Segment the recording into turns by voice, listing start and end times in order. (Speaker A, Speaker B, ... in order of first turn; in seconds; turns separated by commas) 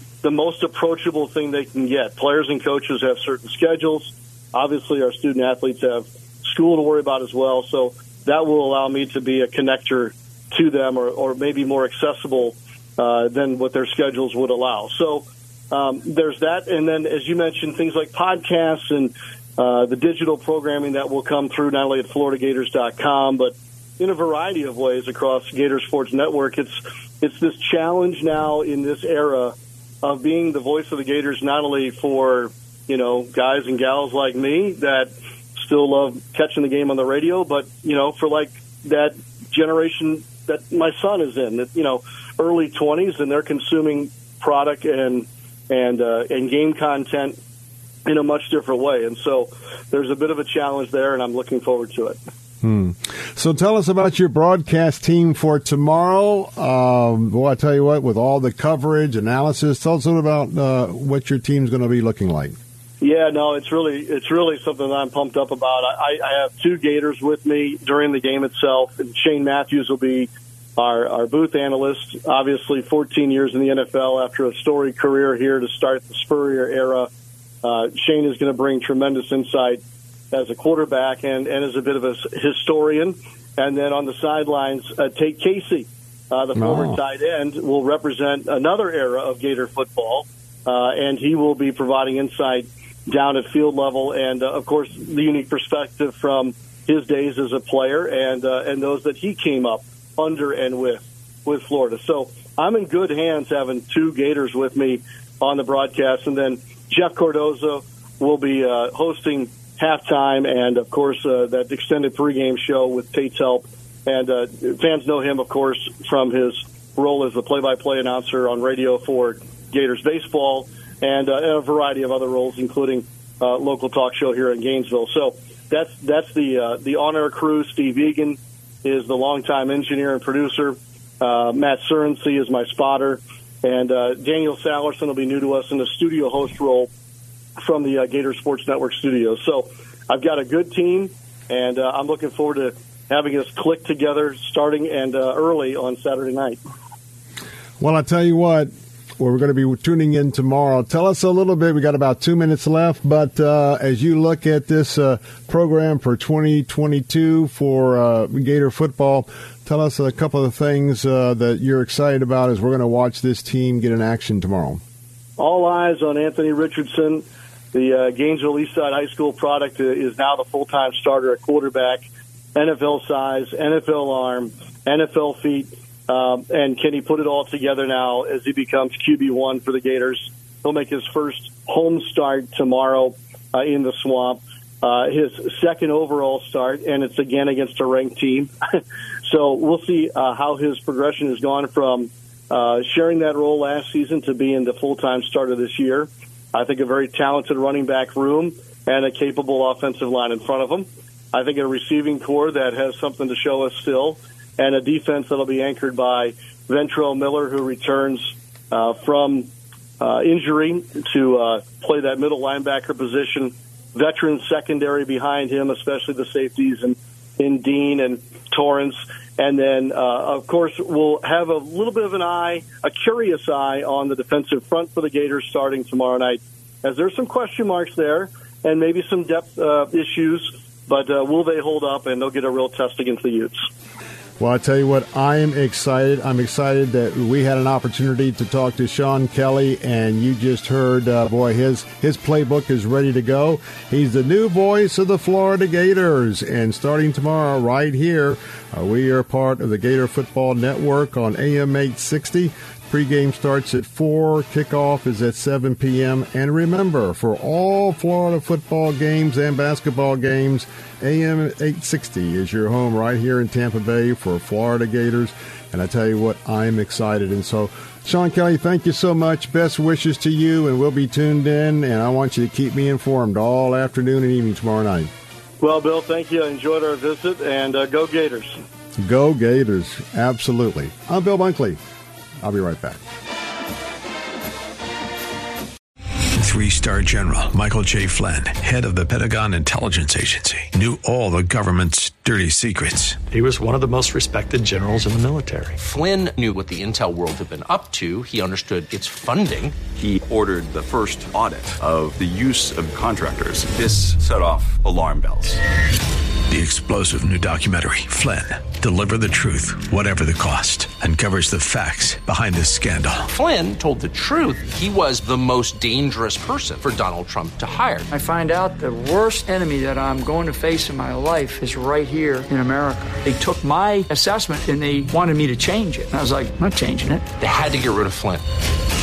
Speaker A: 0.2-47.4, Speaker A: 48.1-52.2, Speaker B: 52.6-62.6, Speaker A: 63.0-77.1, Speaker A: 77.6-79.8, Speaker A: 80.3-136.9, Speaker B: 86.6-87.0, Speaker A: 137.6-146.6, Speaker B: 147.8-164.8, Speaker A: 165.4-209.5, Speaker A: 210.0-233.7, Speaker B: 234.4-275.1, Speaker A: 275.6-278.6, Speaker B: 279.0-281.8, Speaker B: 282.4-283.0, Speaker C: 286.4-293.2, Speaker D: 293.3-295.8, Speaker E: 295.8-299.8, Speaker F: 299.9-305.6, Speaker C: 306.5-313.3, Speaker E: 313.3-318.1, Speaker G: 318.1-327.3, Speaker E: 327.4-328.4